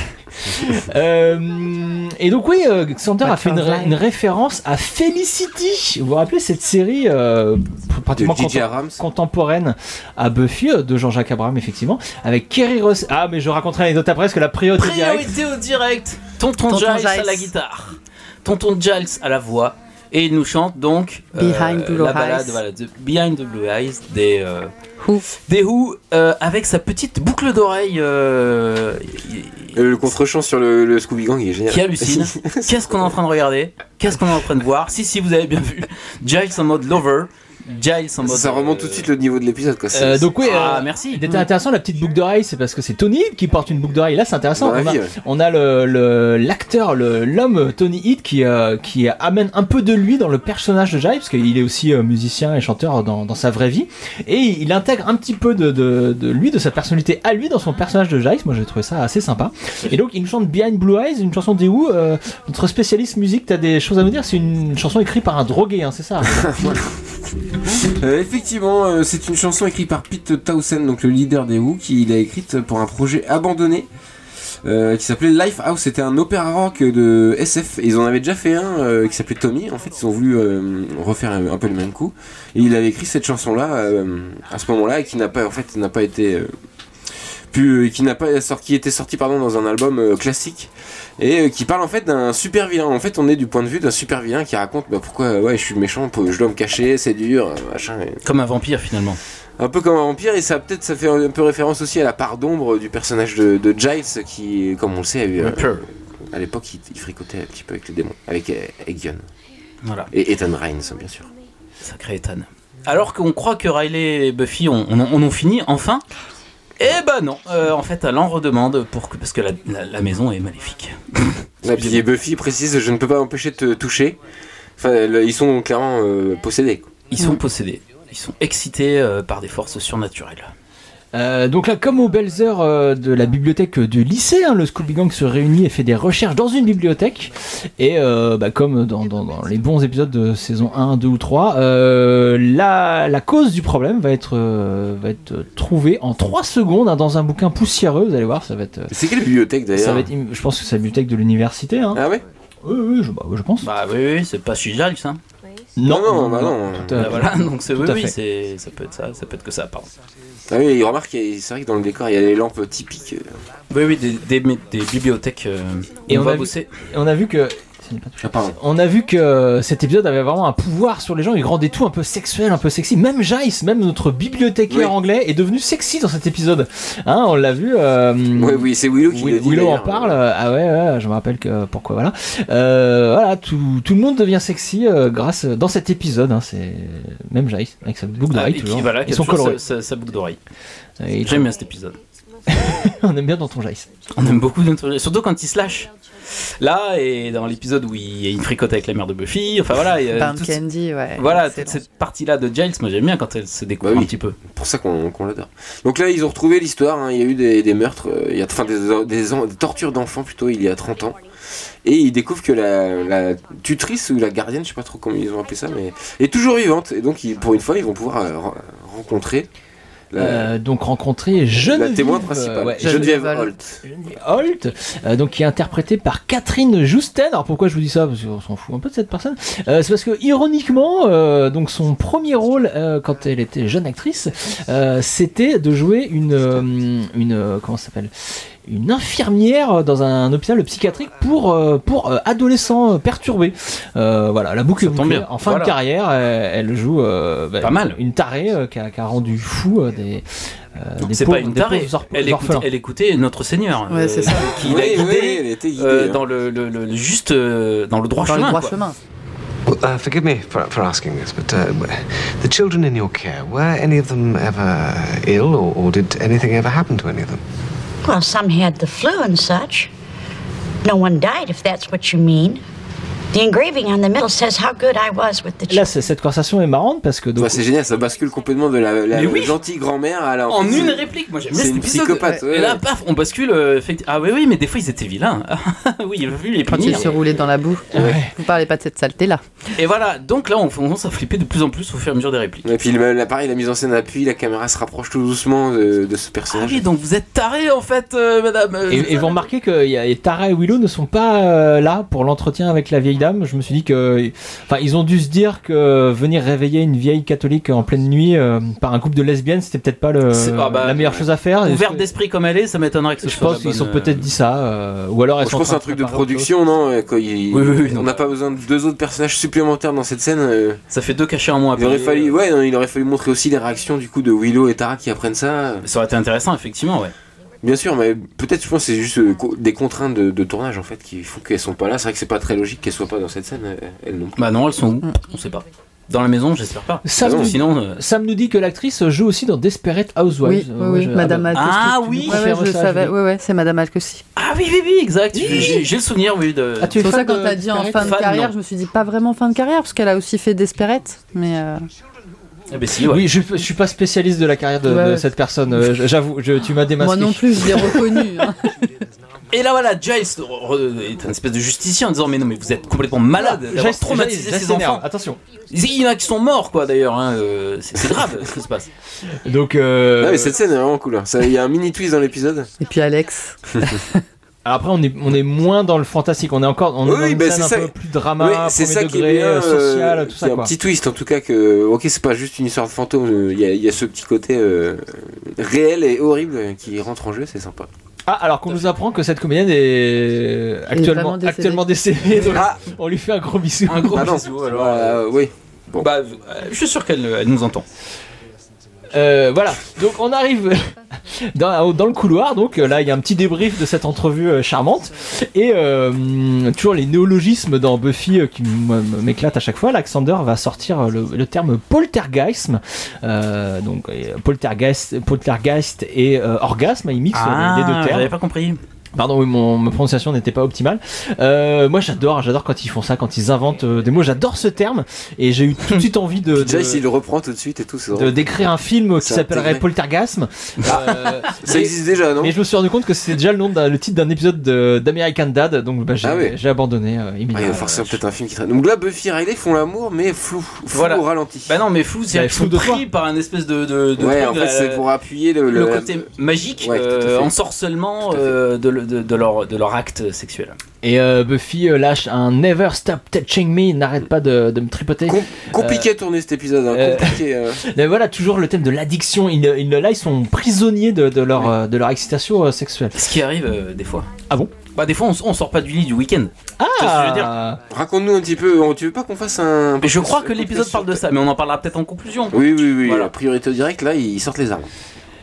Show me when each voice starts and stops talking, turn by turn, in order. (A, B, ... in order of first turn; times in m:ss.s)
0:00.4-0:15.4 A
0:03.2-0:04.0 B
0:08.1-0:09.0 C
0:14.8-0:24.7 D
0:16.6-0:17.5 B
0:21.3-0:22.6 B
0:25.0-0:25.3 B
0:25.4-0:29.8 D
0:29.8-0:33.2 C
0:31.7-0:39.1 D
0:38.2-0:40.4 C
0:39.9-1:06.7 A
0:40.4-0:41.3 D
0:44.6-0:45.2 C
1:06.3-1:07.0 C
1:07.8-1:13.9 C
1:14.6-1:26.5 C
1:27.5-1:38.2 C
1:38.2-1:39.2 D
1:39.6-1:45.7 C
1:45.4-1:45.8 D
1:46.3-1:49.3 C
1:49.8-1:50.1 D
1:50.1-1:51.3 C
1:51.8-1:56.0 D
1:56.8-2:02.0 D
2:01.6-2:04.2 C
2:04.8-2:06.9 C
2:07.1-2:10.5 D
2:11.1-2:28.9 A
2:28.9-2:30.1 C
2:29.7-2:32.0 A
2:31.9-2:32.2 C
2:32.6-2:33.7 A
2:33.6-2:35.2 D
2:35.8-2:38.2 A
2:35.8-2:37.2 C
2:37.0-2:39.9 D
2:40.5-2:43.3 C
2:43.7-2:46.7 D
2:46.1-3:09.6 A
2:48.2-2:48.6 C
2:54.7-2:55.0 C
2:58.3-3:00.2 C
3:08.3-3:10.4 D
3:11.0-3:11.5 A
3:11.2-3:12.0 D
3:12.5-3:14.3 A
3:14.1-3:15.9 D
3:16.6-3:20.6 D
3:20.1-3:21.8 B
3:21.1-3:24.4 D
3:23.8-3:31.2 C
3:31.8-3:39.5 C
3:40.1-3:40.5 C
3:40.2-3:43.3 A
3:41.6-3:43.8 C
3:42.8-3:43.5 B
3:43.8-4:12.7 A
4:04.8-4:05.8 D
4:07.6-4:08.0 D
4:11.0-4:18.8 D
4:13.9-4:14.6 B
4:14.6-4:16.2 C
4:18.2-4:19.0 B
4:19.7-4:27.4 E
4:28.0-4:29.9 F
4:30.8-4:32.6 F
4:33.3-4:35.9 F
4:35.7-4:37.6 A
4:37.4-4:42.8 C
4:39.1-4:39.6 D
4:40.5-4:47.4 D
4:46.7-4:49.4 B
4:47.9-4:48.4 A
4:48.0-4:48.2 C
4:49.8-4:52.7 D
4:52.6-4:56.8 C
4:56.5-4:59.5 D
4:58.9-5:12.1 A
5:10.3-5:14.3 D
5:13.2-5:16.5 A
5:15.4-5:20.8 C
5:17.5-5:18.2 D
5:20.9-5:22.4 D
5:21.8-5:25.9 C
5:25.8-5:27.1 D
5:27.6-5:34.4 C
5:34.4-5:38.0 D
5:37.0-5:43.2 A
5:37.2-5:37.6 C
5:40.4-5:44.2 B
5:41.5-5:42.5 D
5:44.4-5:47.0 D
5:45.3-5:45.9 A
5:46.8-5:48.2 A
5:47.0-5:51.9 B
5:48.0-5:48.6 D
5:52.7-5:53.3 D
5:53.0-5:58.3 A
5:54.8-5:55.3 B
5:57.0-5:58.7 B
5:59.5-6:05.0 D
6:03.3-6:05.4 A
6:05.7-6:08.9 D
6:09.4-6:10.6 A
6:10.2-6:12.7 C
6:12.8-6:14.2 B
6:14.6-6:20.7 A
6:17.0-6:27.9 C
6:28.2-6:34.4 A
6:30.9-6:31.9 B
6:32.5-6:32.8 C
6:33.9-6:35.2 D
6:34.1-6:36.1 C
6:36.0-6:37.8 D
6:39.1-6:58.4 A
6:57.3-6:58.8 D
6:59.2-7:07.0 A
7:06.5-7:08.5 C
7:08.1-7:18.2 A
7:09.2-7:09.8 C
7:10.8-7:12.6 C
7:16.2-7:16.6 C
7:17.5-7:21.8 C
7:20.9-7:25.0 D
7:22.3-7:23.0 A
7:24.2-7:26.2 C
7:25.7-7:30.8 D
7:26.8-7:27.5 C
7:28.3-7:28.6 C
7:31.0-7:36.1 A
7:35.3-7:37.8 C
7:36.9-7:43.3 A
7:43.2-7:44.3 D
7:44.9-7:47.5 D
7:46.8-7:47.8 A
7:47.9-7:51.2 C
7:50.0-7:53.3 D
7:52.5-7:54.9 C